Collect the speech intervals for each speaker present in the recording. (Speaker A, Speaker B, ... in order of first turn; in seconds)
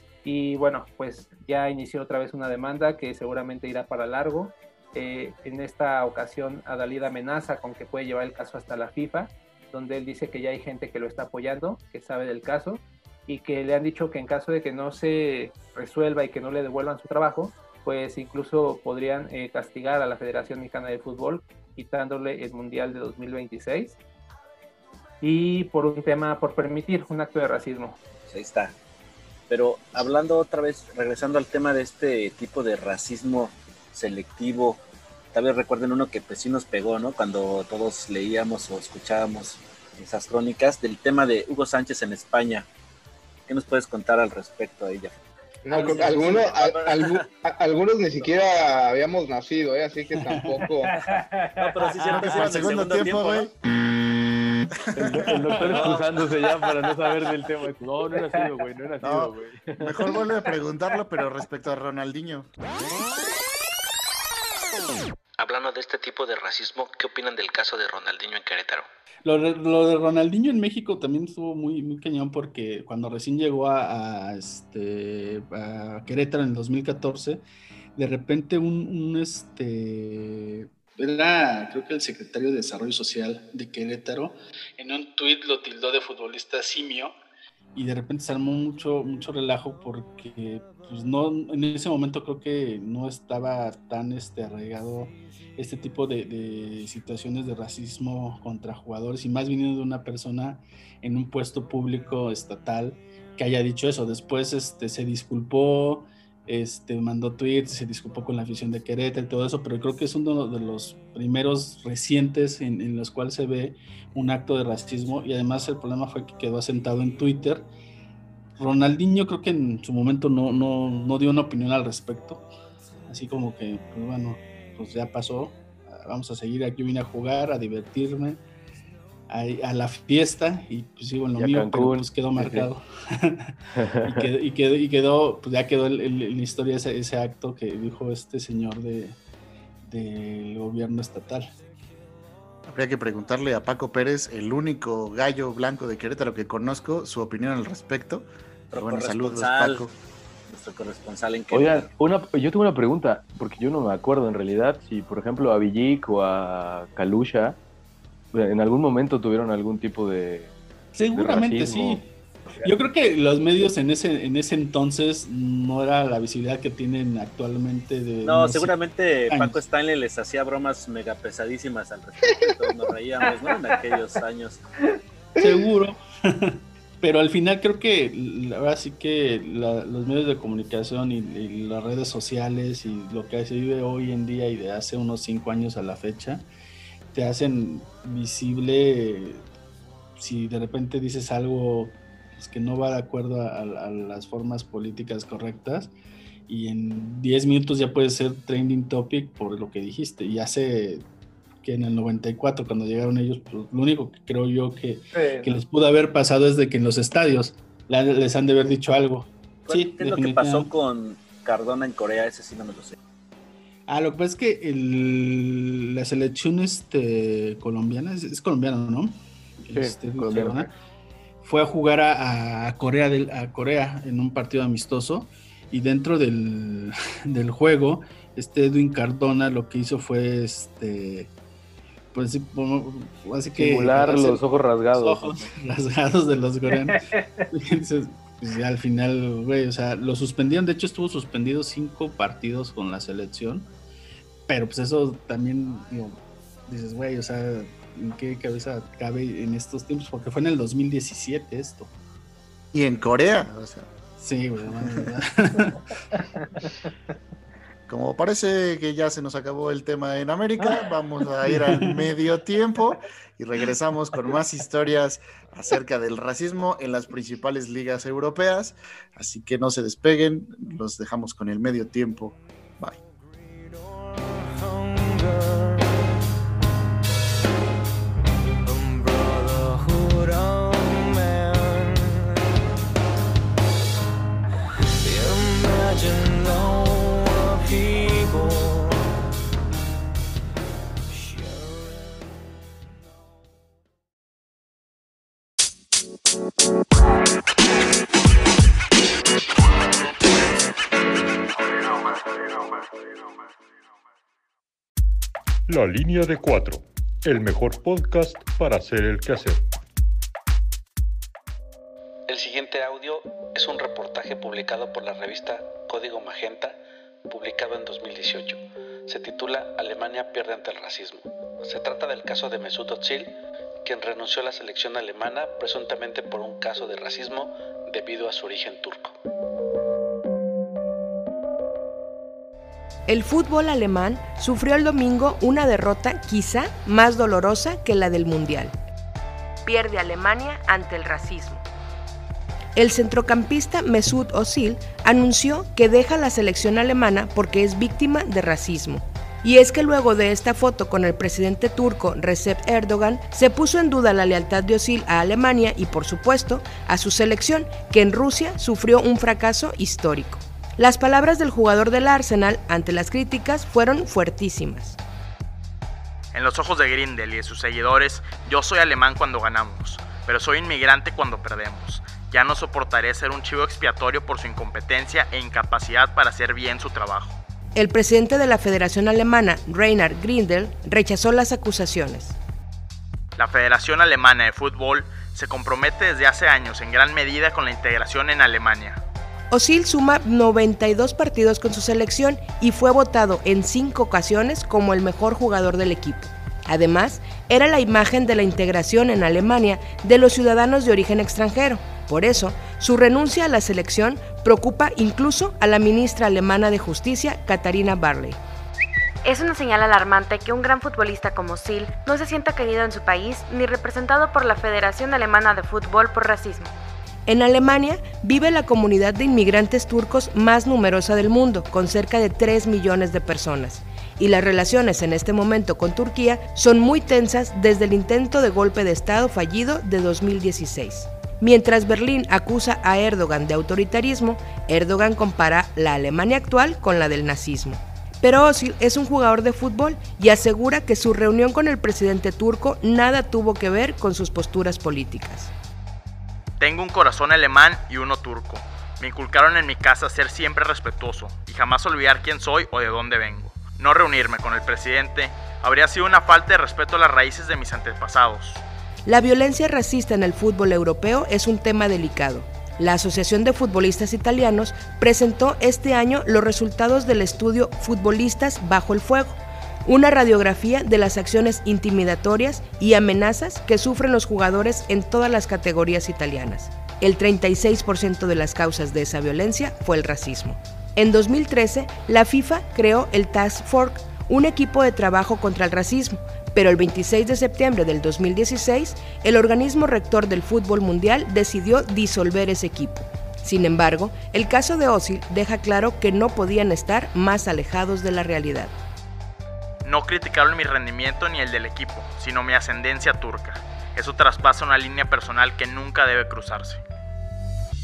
Speaker A: 0.2-23.9, 25.2-28.0, 50.9-51.6, 205.1-205.5
Speaker B: 28.3-28.7, 29.5-34.8, 35.3-42.6, 43.5-45.1, 45.7-47.2, 48.1-48.4, 51.6-53.5, 55.7-56.2, 148.7-149.8, 150.5-151.9, 168.2-174.6, 209.7-212.9
Speaker C: 45.6-50.9, 175.4-175.6
Speaker D: 45.8-46.2, 50.2-50.6, 69.2-77.4, 78.0-87.1, 87.8-117.7, 118.6-122.5, 123.1-128.4, 129.3-139.2, 139.8-141.5, 160.9-162.1, 162.6-168.7, 169.3-169.6, 175.4-186.4, 187.1-189.4, 190.2-195.9, 196.5-201.0, 201.6-210.7, 213.9-220.7, 221.4-231.3, 232.1-234.4, 234.9-243.7, 244.5-251.9, 254.2-255.8
Speaker E: 52.0-52.7, 55.0-60.1, 131.3-132.7, 133.8-134.3, 151.5-157.6, 158.3-160.5, 161.1-162.0, 219.7-220.7, 233.6-235.5
Speaker F: 52.1-53.5, 54.9-55.5, 59.0-62.5, 142.7-149.9, 252.7-253.9, 257.9-273.0
Speaker G: 65.4-68.9, 312.3-323.3, 323.8-329.1
Speaker H: 305.7-309.6
Speaker I: 333.1-338.7, 339.6-341.6, 342.8-365.0, 377.7-382.4, 389.5-408.4, 417.3-445.5, 459.1-498.7
Speaker J: 366.3-377.4, 383.4-389.0, 446.6-458.6, 499.8-506.8
Speaker K: 409.2-416.7